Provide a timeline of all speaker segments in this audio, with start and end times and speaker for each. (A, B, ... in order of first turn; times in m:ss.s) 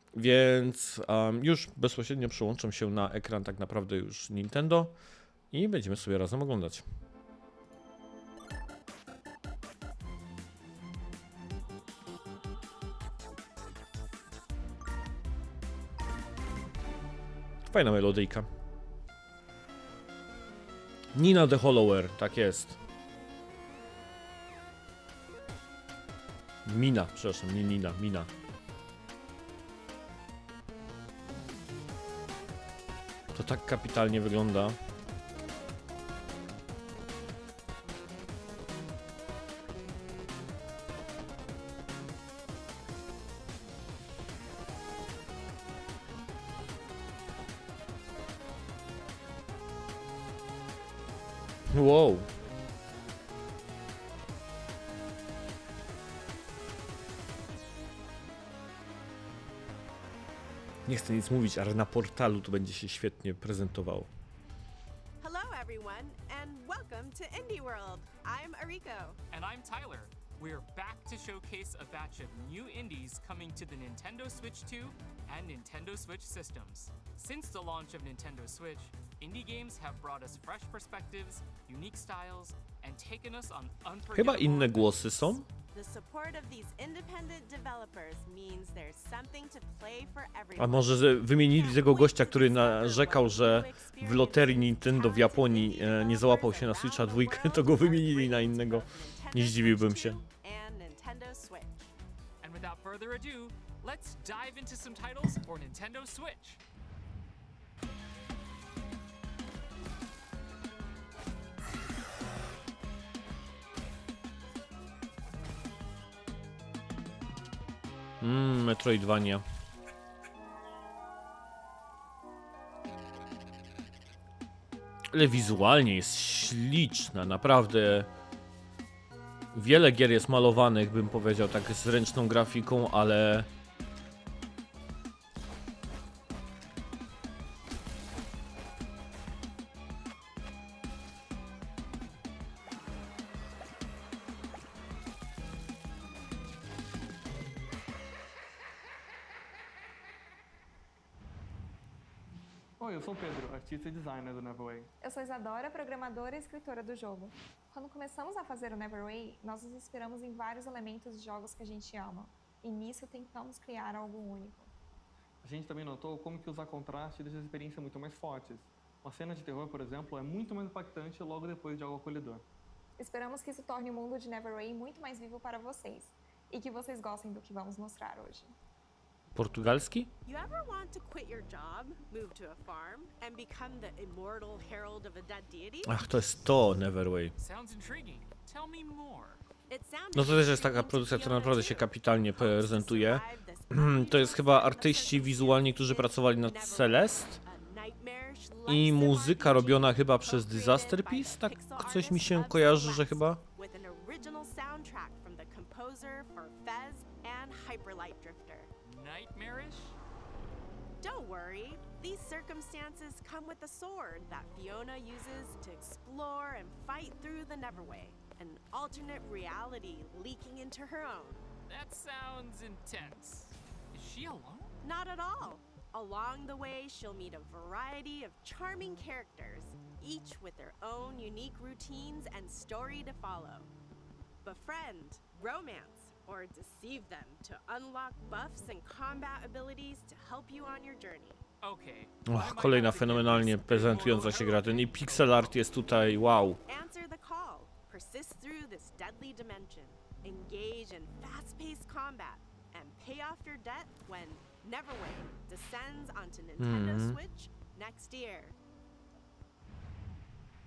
0:00.1-0:04.9 A
0:05.5-0:06.8 A
0:17.7-0:18.5 A
0:21.2-0:22.8 A
0:26.7-0:28.3 A
0:33.3-0:34.8 A
0:51.7-0:52.3 A
1:00.9-1:04.1 A
1:05.2-1:09.2 B
1:09.3-1:25.4 C
1:24.1-1:25.5 A
1:25.7-1:41.9 B
1:30.6-1:40.2 A
1:42.4-1:46.6 C
1:58.2-1:59.4 A
2:05.1-2:08.1 A
2:09.5-2:13.5 A
2:32.8-2:34.9 D
2:35.0-2:44.7 E
2:45.4-2:52.5 D
2:53.0-2:58.5 E
2:59.4-3:00.1 A
3:00.2-3:06.0 B
3:05.9-3:07.3 A
3:07.4-3:09.4 C
3:09.7-3:28.7 B
3:10.1-3:17.4 A
3:18.7-3:23.4 A
3:28.8-3:30.0 C
3:31.0-3:41.5 B
3:41.7-3:44.7 C
3:44.8-3:53.7 B
3:54.4-4:01.4 B
4:01.6-4:05.6 C
4:02.3-4:06.6 A
4:06.7-4:18.6 B
4:16.6-4:17.2 A